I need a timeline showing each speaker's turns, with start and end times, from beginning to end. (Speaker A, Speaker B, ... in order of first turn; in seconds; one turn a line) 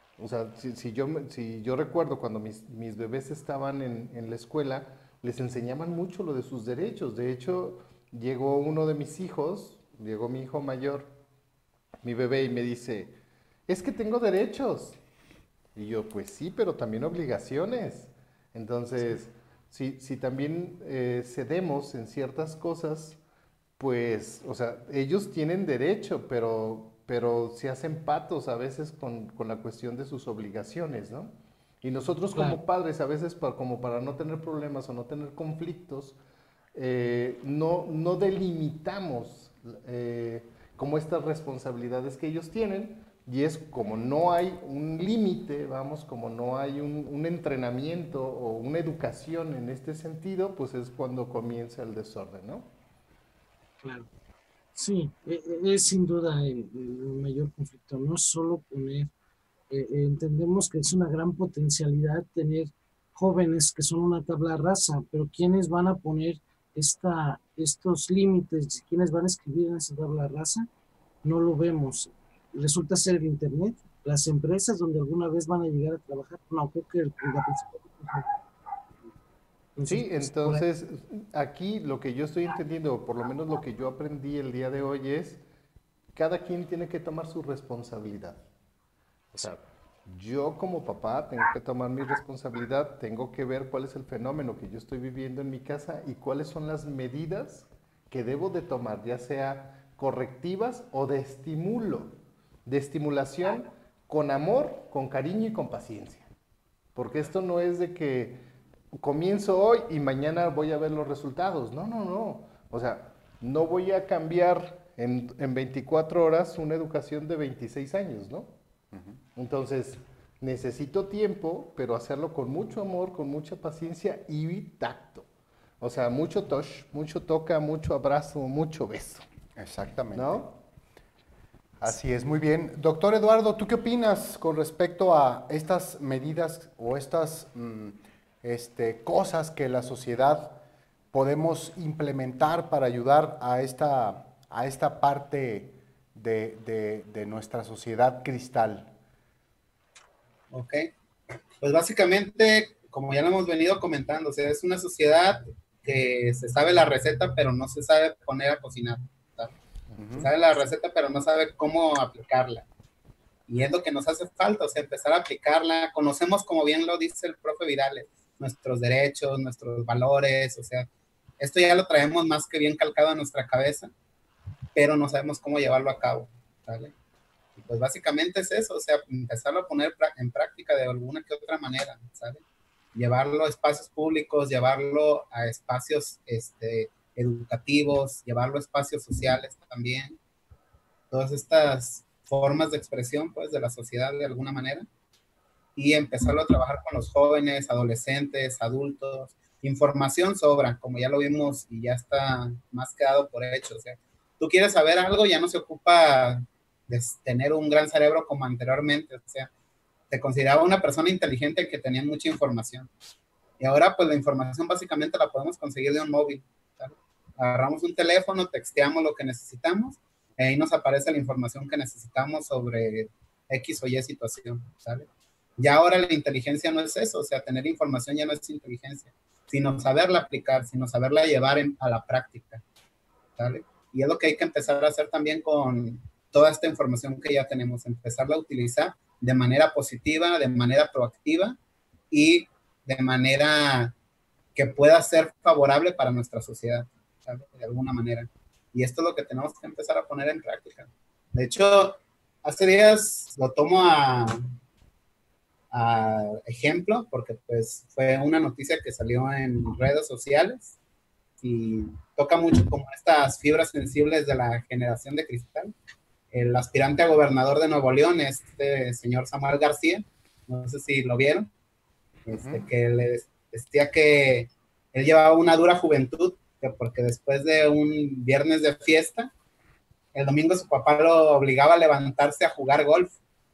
Speaker A: 0.2-11.1
Speaker A: 12.0-13.1
Speaker A: 13.7-15.0
Speaker A: 15.7-23.2
Speaker A: 23.8-36.2
Speaker A: 36.7-52.7
Speaker B: 53.8-54.1
Speaker B: 54.8-59.1
Speaker B: 59.7-70.7
Speaker B: 71.2-78.4
Speaker B: 79.8-80.6
Speaker A: 79.8-85.4
Speaker A: 86.1-88.4
Speaker A: 89.3-106.3
Speaker A: 106.9-118.5
Speaker A: 119.3-125.3
Speaker A: 125.8-129.2
Speaker C: 129.6-130.5
Speaker A: 130.1-130.5
Speaker C: 131.8-140.6
Speaker C: 141.1-148.9
Speaker D: 150.5-150.9
Speaker D: 151.6-159.5
Speaker C: 160.0-160.3
Speaker D: 160.2-162.7
Speaker D: 163.5-170.9
Speaker D: 171.4-173.9
Speaker D: 174.7-176.9
Speaker D: 177.6-182.4
Speaker D: 182.9-190.2
Speaker D: 191.1-194.9
Speaker D: 195.8-209.5
Speaker D: 210.1-212.9
Speaker D: 213.6-232.6
Speaker D: 233.4-241.6
Speaker D: 242.1-243.9
Speaker D: 244.6-254.5
Speaker D: 255.7-260.8
Speaker D: 261.4-265.7
Speaker D: 266.3-271.5
Speaker D: 272.2-279.3
Speaker C: 272.4-272.6
Speaker D: 280.1-283.1